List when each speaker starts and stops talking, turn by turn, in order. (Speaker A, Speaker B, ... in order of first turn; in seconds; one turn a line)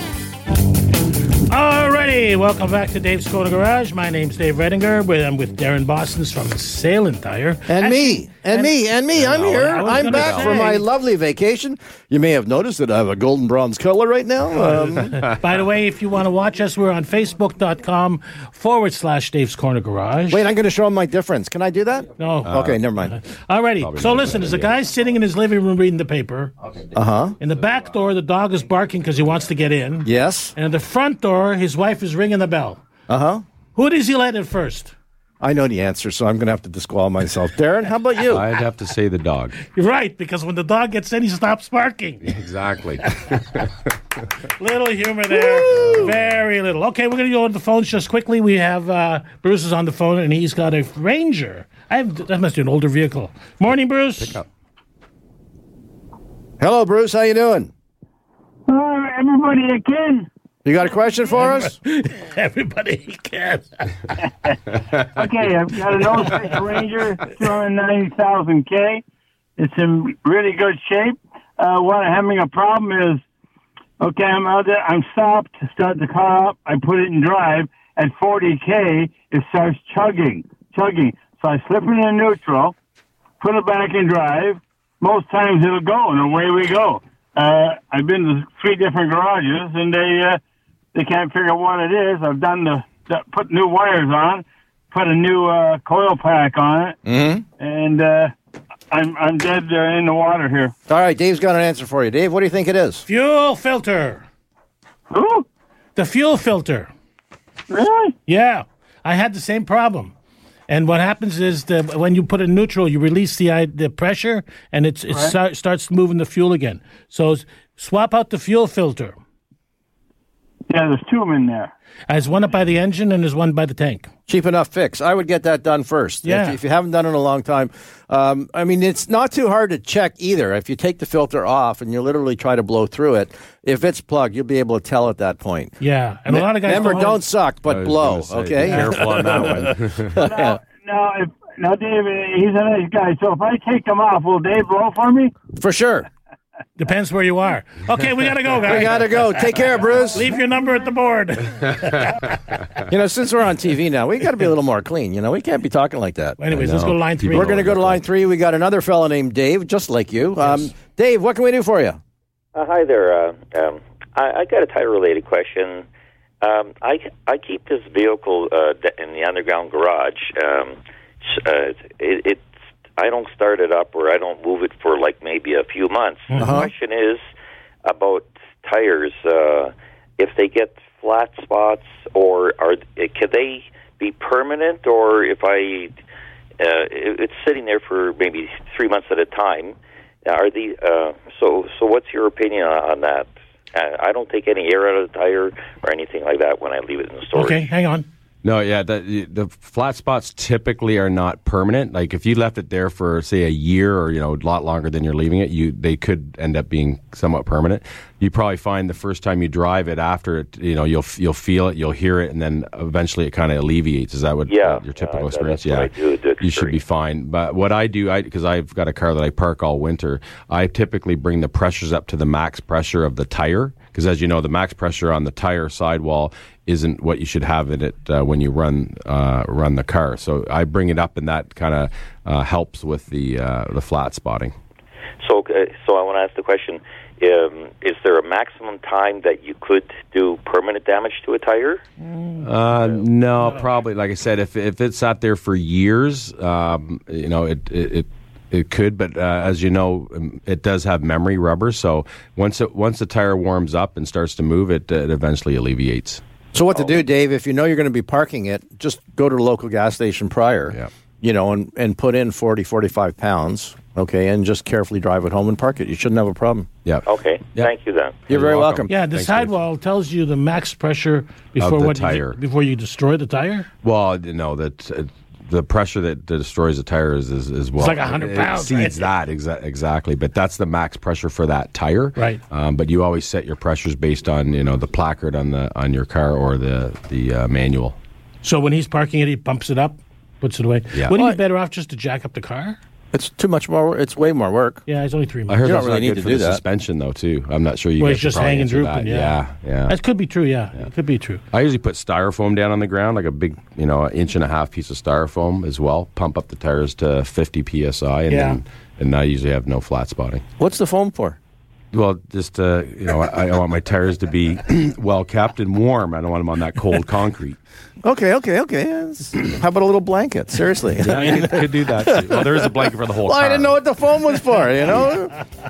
Speaker A: 1.5-8.7
Speaker B: 7.7-15.3
Speaker C: 9.2-10.8
Speaker A: 9.6-10.8
Speaker A: 14.6-20.4
Speaker B: 20.3-23.2
Speaker A: 22.2-26.5
Speaker C: 22.5-22.8
Speaker C: 23.8-24.7
Speaker B: 26.9-27.4
Speaker A: 27.4-32.8
Speaker B: 30.1-30.5
Speaker B: 33.1-33.4
Speaker A: 33.8-34.9
Speaker B: 35.4-38.4
Speaker C: 38.3-39.6
Speaker A: 39.6-42.3
Speaker C: 42.2-43.8
Speaker A: 44.6-54.4
Speaker B: 45.3-46.1
Speaker C: 54.2-54.5
Speaker B: 56.6-57.7
Speaker D: 58.7-60.3
Speaker B: 60.6-61.8
Speaker A: 61.4-64.0
Speaker D: 65.1-69.0
Speaker D: 69.6-73.2
Speaker D: 74.0-82.8
Speaker D: 83.4-90.4
Speaker D: 90.9-97.0
Speaker B: 97.0-97.4
Speaker D: 97.6-98.3
Speaker D: 98.9-100.7
Speaker B: 100.9-103.0
Speaker A: 103.1-104.2
Speaker D: 105.1-105.5
Speaker A: 106.0-106.9
Speaker D: 107.7-108.2
Speaker A: 108.3-110.1
Speaker A: 110.7-119.2
Speaker D: 115.1-115.4
Speaker D: 120.7-121.7
Speaker A: 122.1-124.1
Speaker B: 124.3-135.8
Speaker A: 126.2-126.6
Speaker A: 135.8-137.2
Speaker B: 136.3-140.6
Speaker C: 136.7-137.0
Speaker C: 137.7-140.2
Speaker A: 138.7-139.5
Speaker D: 140.1-145.3
Speaker B: 145.5-146.1
Speaker A: 146.8-149.5
Speaker B: 148.6-150.3
Speaker A: 150.1-152.3
Speaker B: 152.9-156.5
Speaker A: 156.4-157.7
Speaker C: 156.5-158.0
Speaker B: 157.3-162.0
Speaker E: 162.6-165.8
Speaker E: 166.4-170.8
Speaker E: 171.3-172.4
Speaker E: 173.0-177.2
Speaker A: 176.3-176.7
Speaker B: 176.4-176.7
Speaker E: 177.8-185.9
Speaker E: 186.6-197.7
Speaker A: 197.3-198.1
Speaker C: 198.4-234.5
Speaker E: 214.5-216.8
Speaker E: 235.2-241.8
Speaker C: 242.4-256.2
Speaker B: 256.5-266.7
Speaker C: 266.9-267.7
Speaker E: 267.1-268.3
Speaker B: 268.3-268.9
Speaker C: 268.3-269.5
Speaker A: 268.9-273.7
Speaker C: 271.6-272.4
Speaker C: 273.8-288.0
Speaker A: 277.8-279.1
Speaker A: 282.2-282.4
Speaker A: 288.4-292.8
Speaker B: 293.1-294.8
Speaker A: 294.9-295.6
Speaker C: 295.5-300.0
Speaker B: 295.6-296.6
Speaker A: 298.0-301.4
Speaker C: 301.5-310.4
Speaker A: 308.3-308.6
Speaker B: 310.6-311.4
Speaker C: 311.9-317.6
Speaker B: 318.0-325.4
Speaker C: 321.0-323.8